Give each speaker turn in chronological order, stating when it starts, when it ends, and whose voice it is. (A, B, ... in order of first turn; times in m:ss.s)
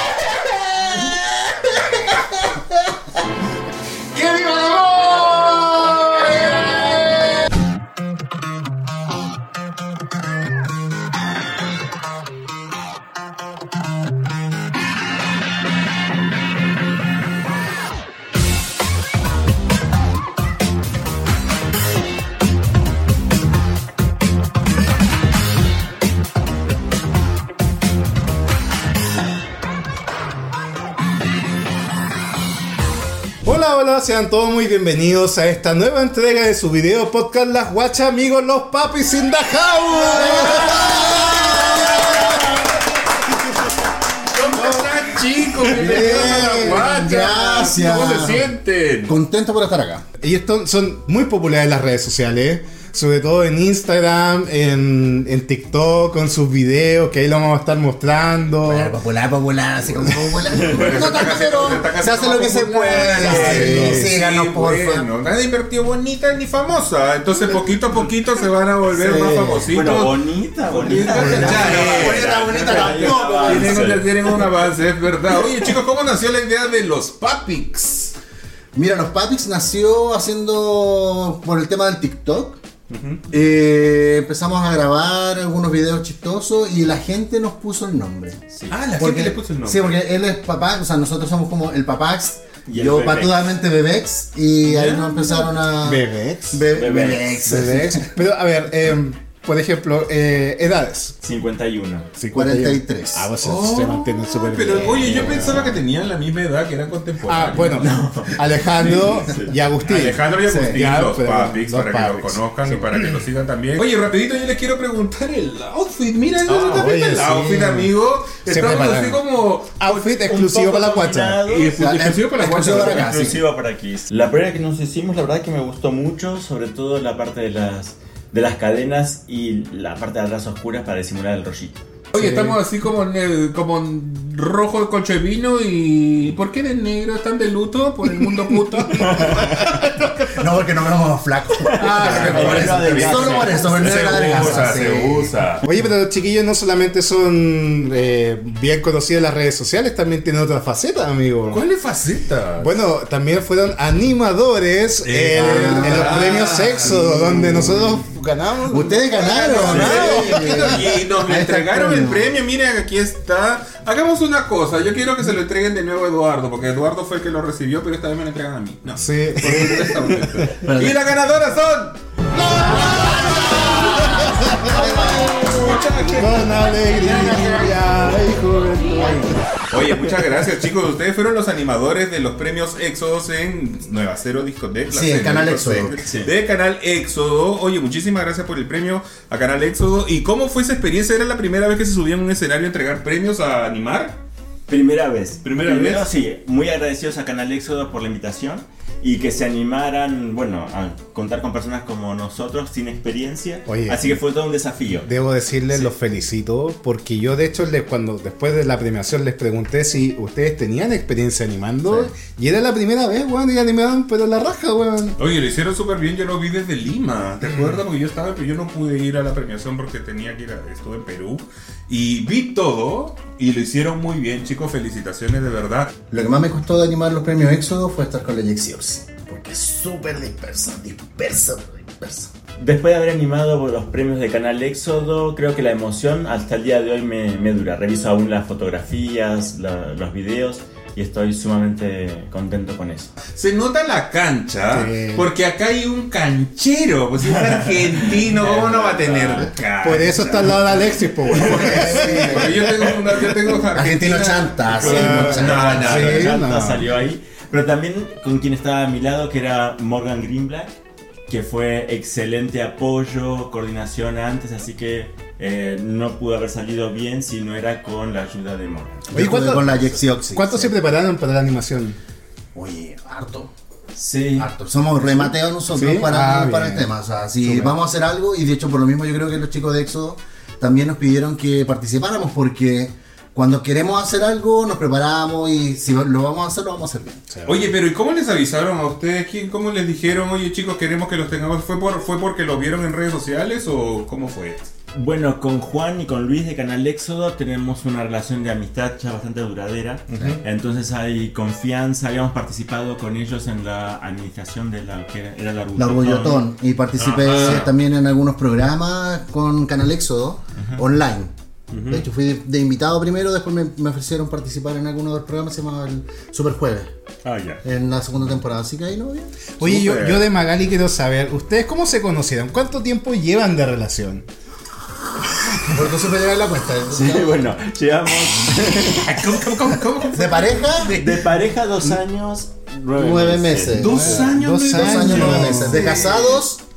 0:00.6-0:01.2 A
0:04.1-0:06.5 B
0:33.4-0:42.6 C
0:40.0-0:42.5 D
0:44.3-0:49.2 B
0:44.5-0:45.0 C
0:45.5-0:46.9 C
0:45.8-0:48.4 D
0:49.1-0:50.0 D
0:50.2-0:59.0 C
0:58.6-1:05.1 D
1:00.6-1:01.2 A
1:00.6-1:18.1 B
1:02.2-1:04.1 C
1:03.2-1:04.0 A
1:08.9-1:09.7 C
1:09.7-1:14.4 A
1:11.1-1:14.0 D
1:11.1-1:11.5 C
1:18.7-1:22.6 D
1:22.9-1:23.2 B
1:23.3-1:28.4 D
1:28.5-1:28.8 A
1:28.7-1:30.0 B
1:29.0-1:38.2 D
1:32.6-1:33.5 A
1:34.6-1:35.5 B
1:35.8-1:36.6 C
1:36.7-1:37.4 A
1:37.4-1:41.2 C
1:41.2-1:42.1 A
1:42.2-1:45.8 C
1:42.3-1:43.3 D
1:43.4-1:47.9 B
1:45.0-1:45.8 A
1:47.2-1:53.2 C
1:47.6-1:49.6 A
1:49.8-2:00.1 B
1:56.5-1:57.9 C
1:58.4-1:59.2 C
1:59.8-2:01.4 C
2:00.0-2:01.8 A
2:01.4-2:03.3 B
2:01.8-2:03.4 D
2:02.5-2:11.8 A
2:12.1-2:12.6 C
2:12.1-2:20.3 B
2:18.0-2:19.8 C
2:19.0-2:19.8 A
2:20.3-2:25.3 D
2:21.6-2:24.6 A
2:21.7-2:25.6 B
2:21.8-2:22.8 C
2:25.6-2:31.6 C
2:31.5-2:32.8 B
2:32.6-2:41.0 C
2:35.0-2:37.8 B
2:35.4-2:37.6 D
2:38.7-2:42.3 D
2:39.1-2:52.0 B
2:49.0-2:50.5 C
2:50.6-2:51.0 D
2:52.3-2:55.2 C
2:52.9-2:53.8 B
2:53.3-2:55.7 D
2:54.6-2:56.6 B
2:56.1-2:59.4 C
2:57.0-2:57.6 D
2:59.7-3:14.2 B
3:04.9-3:06.0 D
3:06.0-3:06.3 A
3:14.7-3:25.1 A
3:15.4-3:16.1 B
3:23.7-3:24.1 C
3:25.0-3:35.2 C
3:35.2-3:45.9 B
3:46.1-3:52.3 D
3:52.6-4:03.1 A
4:03.3-4:16.4 B
4:04.7-4:05.3 C
4:07.2-4:10.5 A
4:09.8-4:12.6 C
4:11.3-4:12.5 A
4:11.9-4:12.5 D
4:13.7-4:16.2 D
4:14.8-4:16.9 C
4:14.8-4:29.2 A
4:29.1-4:30.7 D
4:29.1-4:29.7 C
4:30.3-4:32.0 C
4:32.5-4:33.5 D
4:33.9-4:34.5 A
4:34.4-4:47.3 D
4:35.7-4:36.9 C
4:37.4-4:37.8 C
4:47.3-4:47.6 C
4:47.4-4:54.7 B
4:54.9-5:06.5 A
5:00.1-5:00.4 B
5:05.8-5:11.3 D
5:07.0-5:07.7 B
5:07.4-5:07.6 A
5:10.6-5:10.8 A
5:11.7-5:12.0 B
5:11.8-5:16.9 D
5:17.2-5:17.6 B
5:17.6-5:19.3 D
5:19.6-5:20.3 B
5:19.6-5:24.2 C
5:25.7-5:27.5 D
5:26.9-5:29.5 A
5:28.7-5:31.3 B
5:30.1-5:31.0 D
5:30.9-5:34.3 A
5:33.0-5:36.6 D
5:33.7-5:36.4 B
5:34.2-5:36.0 C